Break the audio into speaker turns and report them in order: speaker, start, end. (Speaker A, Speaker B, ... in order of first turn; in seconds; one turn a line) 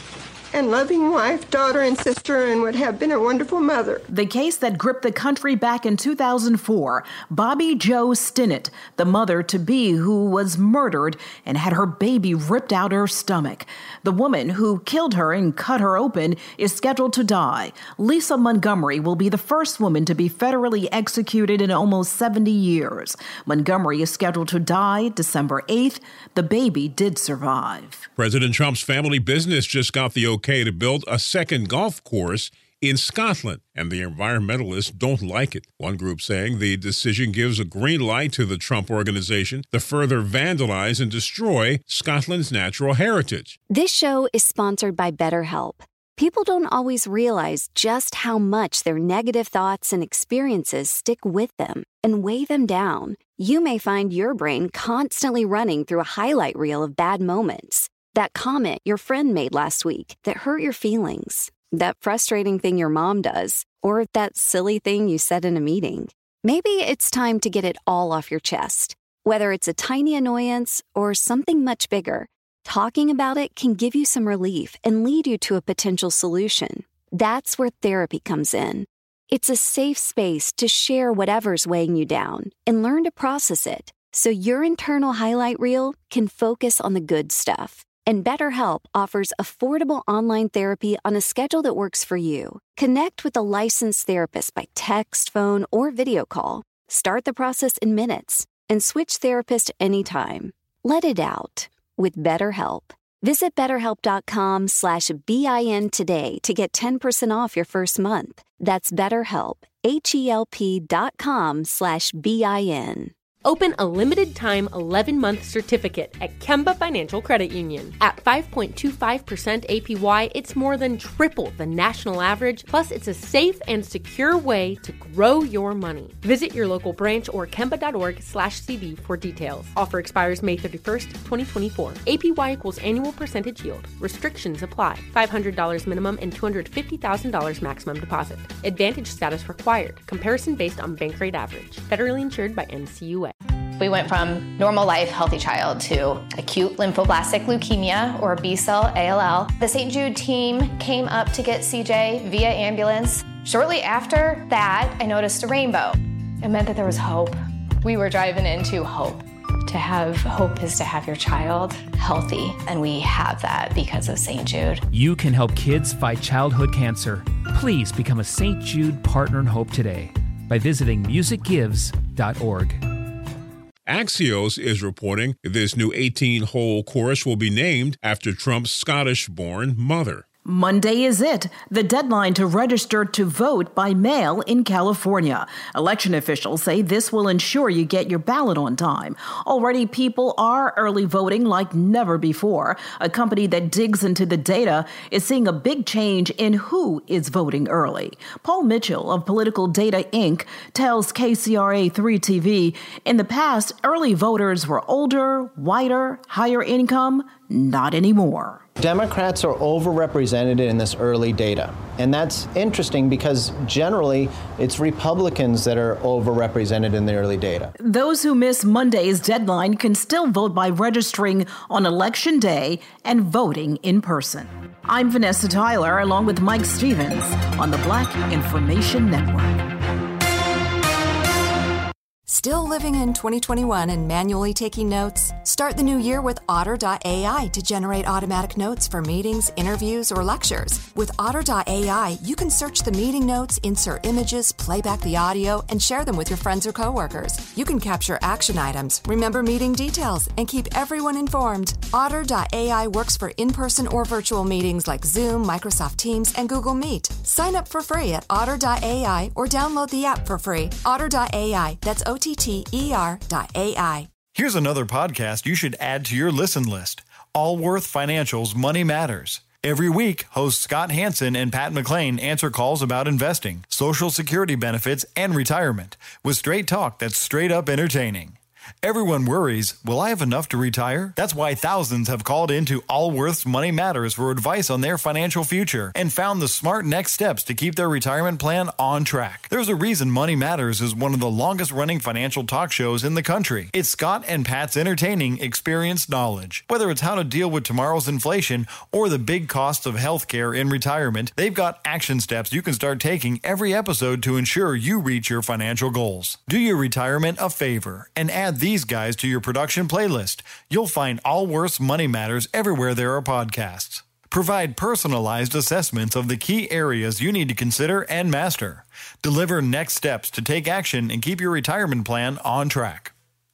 Speaker A: 0.5-4.0
Speaker B: 4.1-28.1
Speaker C: 28.2-43.6
Speaker D: 43.7-113.1
Speaker E: 113.4-143.3
Speaker F: 143.8-164.8
Speaker G: 164.9-172.8
Speaker C: 173.9-180.2
Speaker B: 180.4-208.6
Speaker H: 208.8-217.7
Speaker B: 217.8-229.7
Speaker I: 232.2-264.1
Speaker J: 264.3-278.3
Speaker J: 278.8-323.1